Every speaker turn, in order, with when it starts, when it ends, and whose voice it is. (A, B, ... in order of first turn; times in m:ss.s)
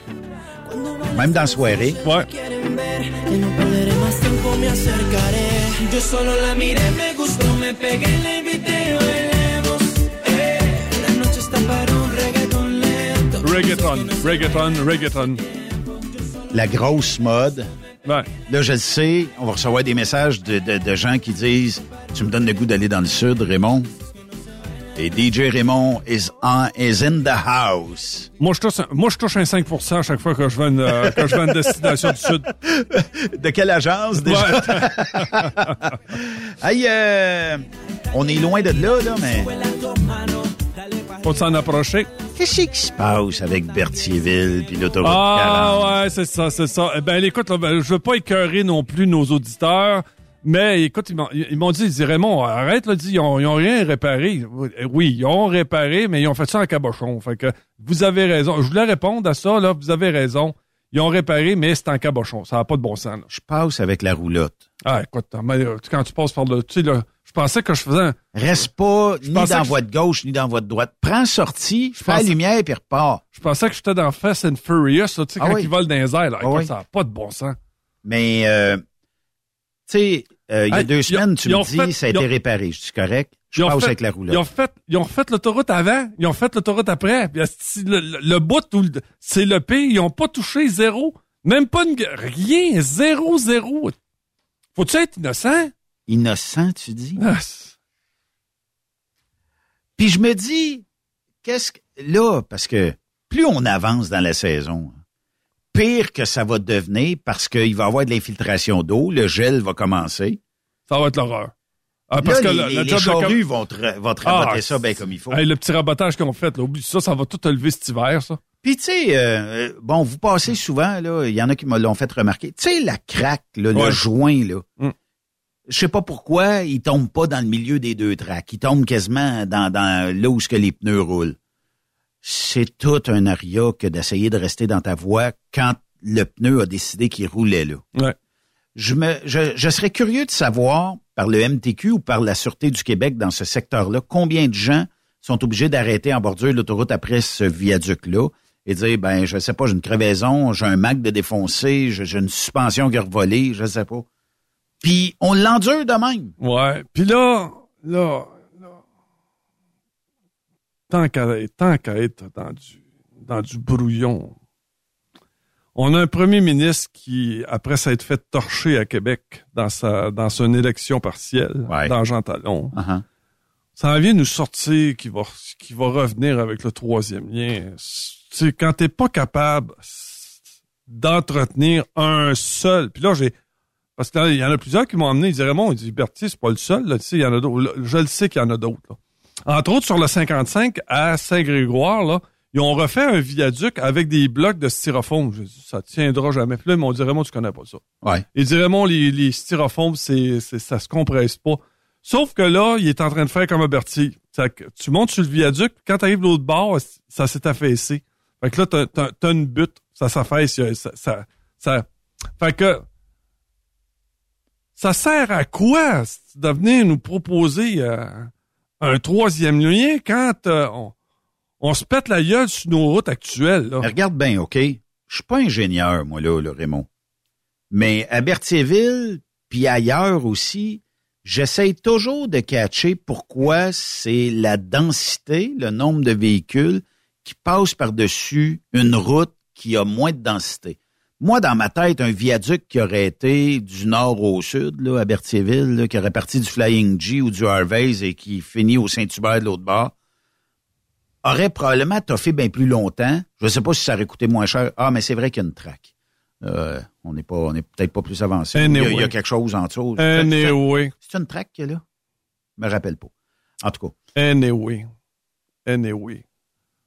0:00.8-0:15.6 A
0:01.1-0:02.0 B
0:02.0-0:02.3 C
0:13.4-0:15.4 C
0:16.5-0:17.7 B
0:18.5-0:23.9 B
0:24.9-0:28.3 B
0:28.4-0:32.5 C
0:30.9-0:39.5 B
0:34.2-0:35.8 C
0:39.2-0:41.4 A
0:41.2-0:42.1 C
0:42.4-0:45.9 B
0:45.0-1:03.2 C
1:03.3-1:04.6 B
1:04.8-1:08.2 C
1:08.3-1:13.2 B
1:09.2-1:09.8 C
1:12.0-1:12.3 C
1:13.3-1:17.6 C
1:15.4-1:15.7 B
1:16.4-1:16.7 B
1:18.0-1:18.8 B
1:19.9-1:24.4 B
1:20.7-1:22.2 C
1:23.6-1:34.0 C
1:34.8-1:35.7 C
1:36.1-1:37.2 B
1:37.2-1:37.7 C
1:40.0-1:40.8 B
1:41.4-1:45.0 B
1:45.7-1:50.4 B
1:50.9-1:51.5 C
1:52.1-1:53.4 C
1:52.2-1:55.4 B
1:54.2-1:58.4 C
1:58.6-2:04.6 B
2:03.7-2:04.0 C
2:05.7-2:11.4 B
2:12.2-2:17.8 B
2:18.8-2:34.0 B
2:34.8-2:36.4 B
2:36.4-2:38.7 C
2:40.9-2:44.4 C
2:45.7-2:52.8 C
2:51.7-2:51.9 B
2:52.7-2:53.0 B
2:53.8-3:00.3 C
3:00.9-3:03.3 C
3:04.0-3:17.8 C
3:18.3-3:31.9 C
3:32.4-3:32.8 C
3:34.8-3:40.9 C
3:41.6-3:43.9 C
3:43.8-3:46.9 B
3:47.7-4:09.9 B
4:11.2-4:15.9 B
4:16.4-4:21.8 B
4:18.5-4:19.1 C
4:20.0-4:20.9 C
4:22.6-4:23.9 B
4:24.1-4:24.9 C
4:25.6-4:26.2 C